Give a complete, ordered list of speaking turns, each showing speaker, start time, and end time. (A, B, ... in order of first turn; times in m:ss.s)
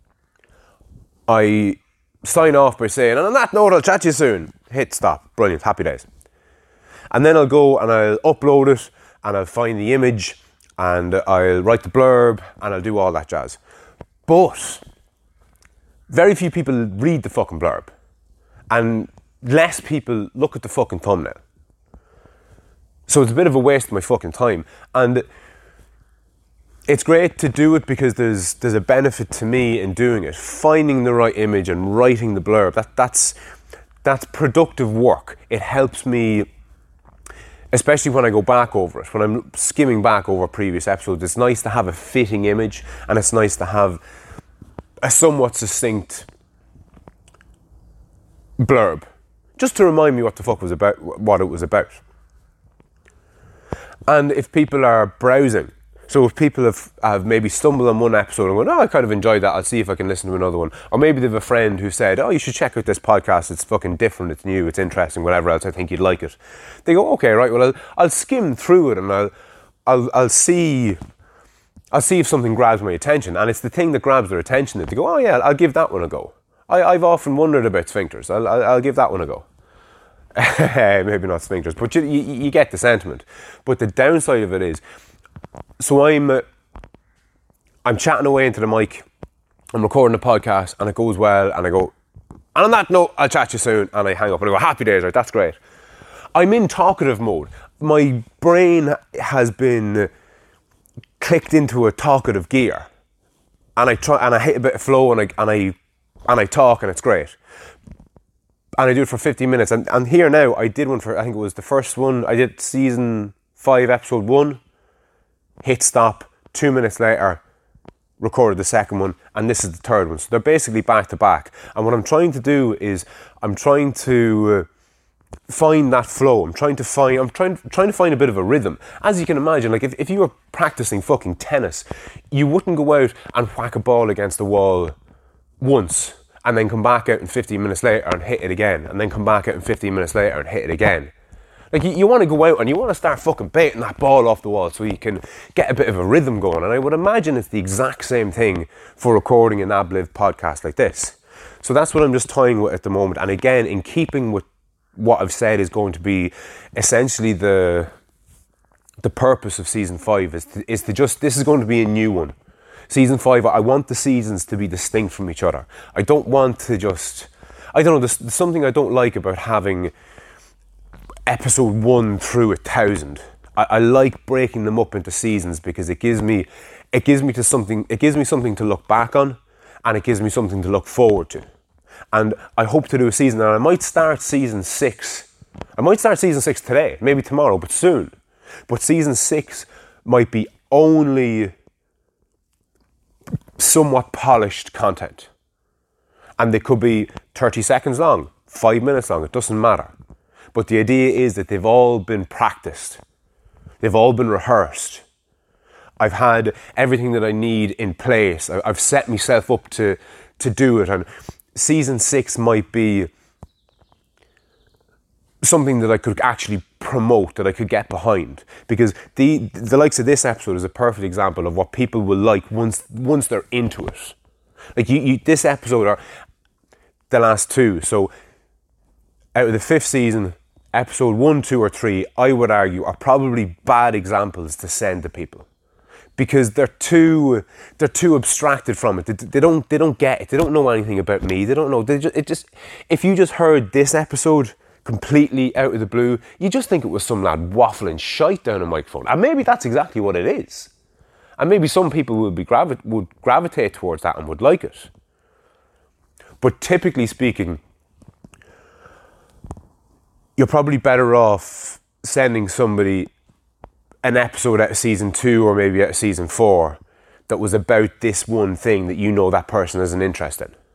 0:01.3-0:06.0 A
0:07.1-0:13.6 A
0:14.3-0:14.8 A
0:16.1-0:17.9 A
0:18.7-0:21.4 A
0:23.1-0:25.2 A
0:26.9-0:33.4 A
0:34.0-0:36.5 A
0:37.7-0:44.0 A
0:45.0-0:46.3 A
0:48.6-0:49.1 A
0:49.6-0:52.0 A
0:54.1-1:09.3 A
1:09.9-1:11.0 A
1:11.9-1:19.4 A
1:20.4-1:24.8 A
1:25.8-1:26.4 A
1:27.8-1:29.1 A
1:29.7-1:31.9 A
1:32.6-1:35.6 A
1:36.3-1:40.1 A
1:41.2-1:42.9 A
1:43.8-1:45.8 A
1:46.3-1:47.4 A
1:48.8-1:54.6 A
1:55.6-1:57.4 A
1:58.2-2:04.7 A
2:05.5-2:14.9 A
2:15.6-2:21.1 A
2:21.7-2:37.9 A
2:39.0-2:42.3 A
2:42.9-2:49.9 A
2:51.3-3:01.5 A
3:02.1-3:08.2 A
3:08.7-3:11.5 A
3:13.6-3:15.3 A
3:16.4-3:19.9 A
3:20.5-3:23.0 A
3:23.8-3:25.0 A
3:26.0-3:33.1 A
3:35.4-3:44.2 A
3:44.8-3:46.0 A
3:47.1-3:48.1 A
3:49.3-3:55.4 A
3:56.2-4:10.7 A
4:11.4-4:14.9 A
4:16.4-4:17.6 A
4:20.4-4:23.1 A
4:24.0-4:30.5 A